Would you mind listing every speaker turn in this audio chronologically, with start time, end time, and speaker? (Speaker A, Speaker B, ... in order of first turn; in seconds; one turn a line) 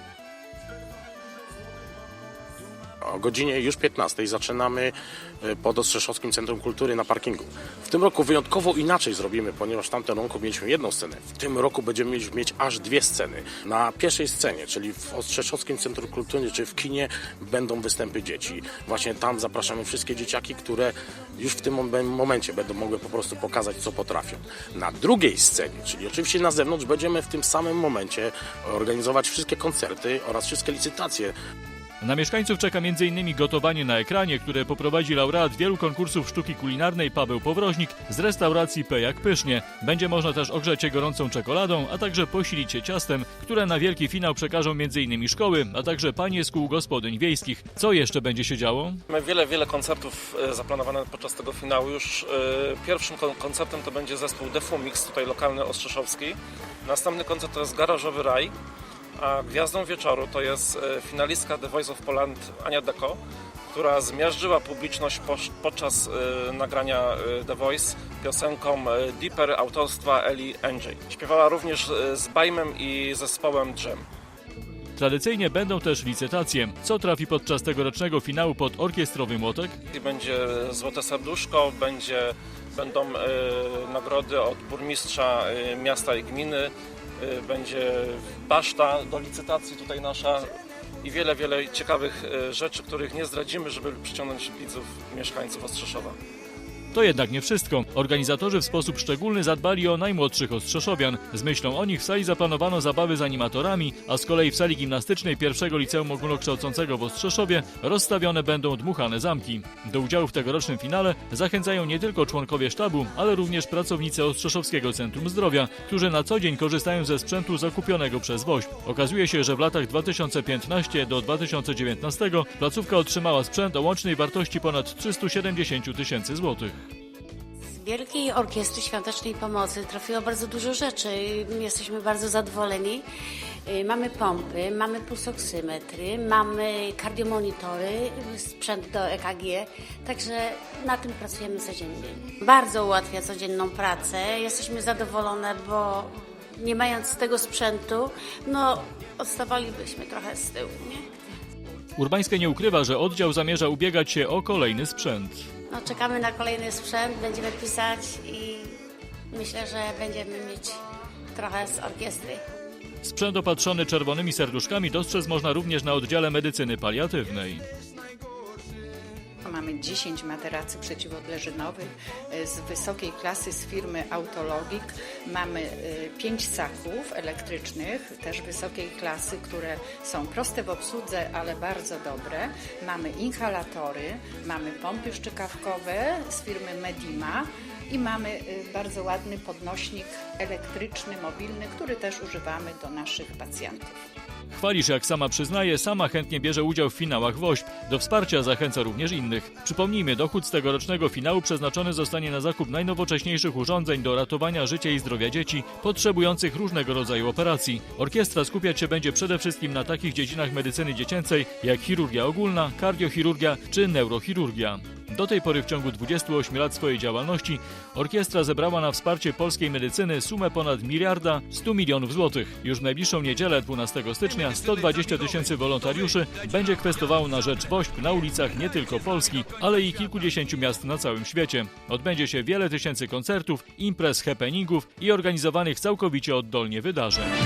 Speaker A: 3.0-31.3
Speaker B: 32.0-49.0
Speaker C: 49.1-58.5
Speaker C: 59.2-63.2
Speaker C: 63.7-74.0
Speaker B: 75.0-79.8
Speaker C: 79.9-90.5
Speaker C: 91.0-96.2
Speaker B: 96.9-126.8
Speaker D: 127.7-133.0
Speaker D: 133.7-151.1
Speaker B: 152.0-155.5
Speaker D: 155.7-158.8
Speaker D: 159.3-160.8
Speaker D: 161.3-162.4
Speaker B: 163.0-167.7
Speaker E: 169.4-193.9
Speaker B: 194.5-237.3